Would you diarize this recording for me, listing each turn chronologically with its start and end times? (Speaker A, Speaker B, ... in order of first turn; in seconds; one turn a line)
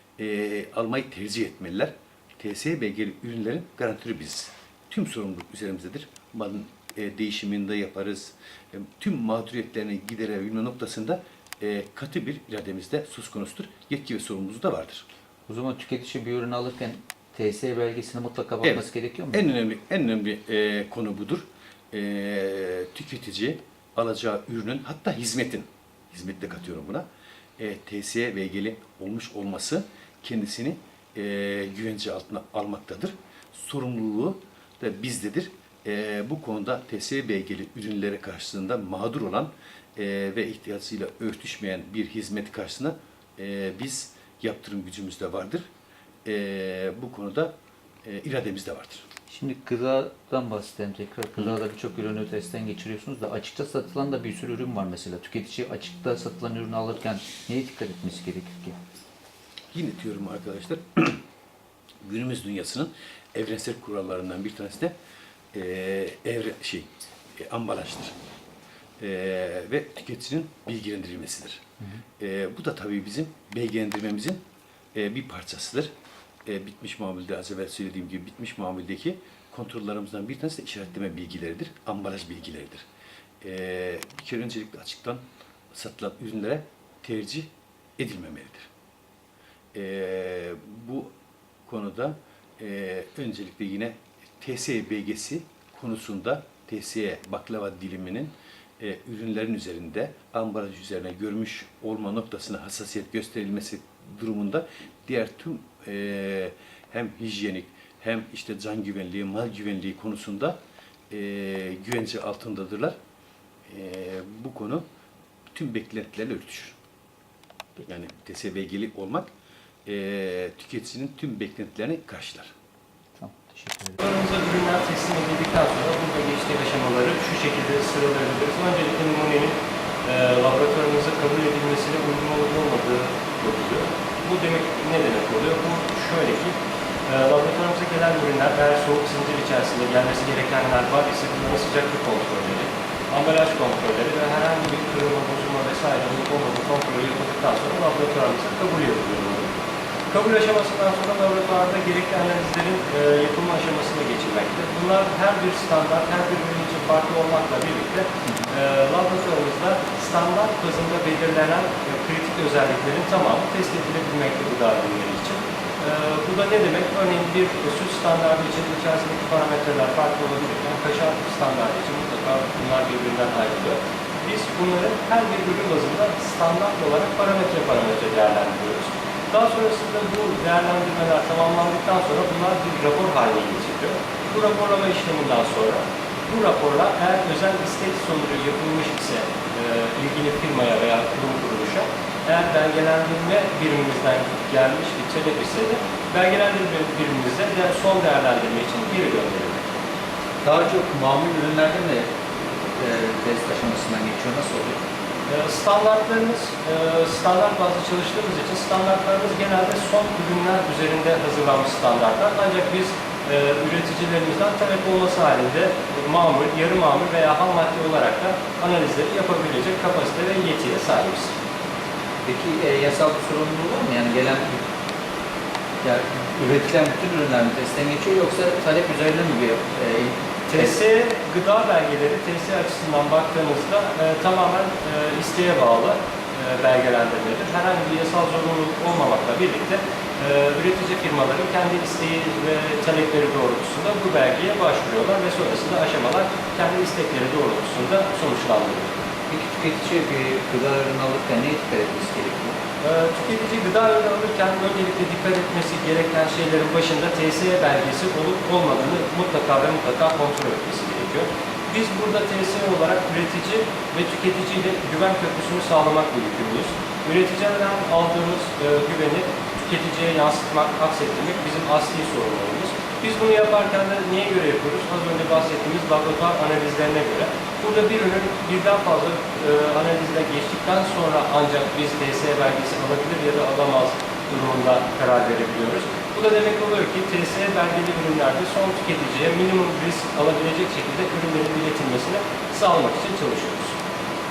Speaker A: 0.2-15.1
Speaker B: 15.5-19.4
Speaker A: 18.6-27.1
Speaker A: 27.6-45.7
Speaker A: 46.2-49.1
Speaker B: 49.3-58.8
Speaker A: 59.7-61.2
Speaker A: 62.0-65.0
Speaker A: 65.5-68.2
Speaker A: 69.0-71.6
Speaker A: 72.2-74.4
Speaker A: 74.9-75.9
Speaker A: 76.5-82.8
Speaker A: 83.4-88.7
Speaker A: 89.7-110.6
Speaker A: 111.1-113.0
Speaker A: 113.7-114.9
Speaker A: 115.5-116.8
Speaker A: 117.8-119.3
Speaker A: 119.8-122.5
Speaker B: 123.2-124.0
Speaker C: 124.0-149.5
Speaker C: 150.1-199.8
Speaker B: 200.4-204.8
Speaker C: 205.3-221.3
Speaker B: 222.2-224.6
Speaker B: 225.8-230.8
Speaker C: 230.5-249.0
Speaker B: 249.3-252.6
Speaker C: 252.8-293.8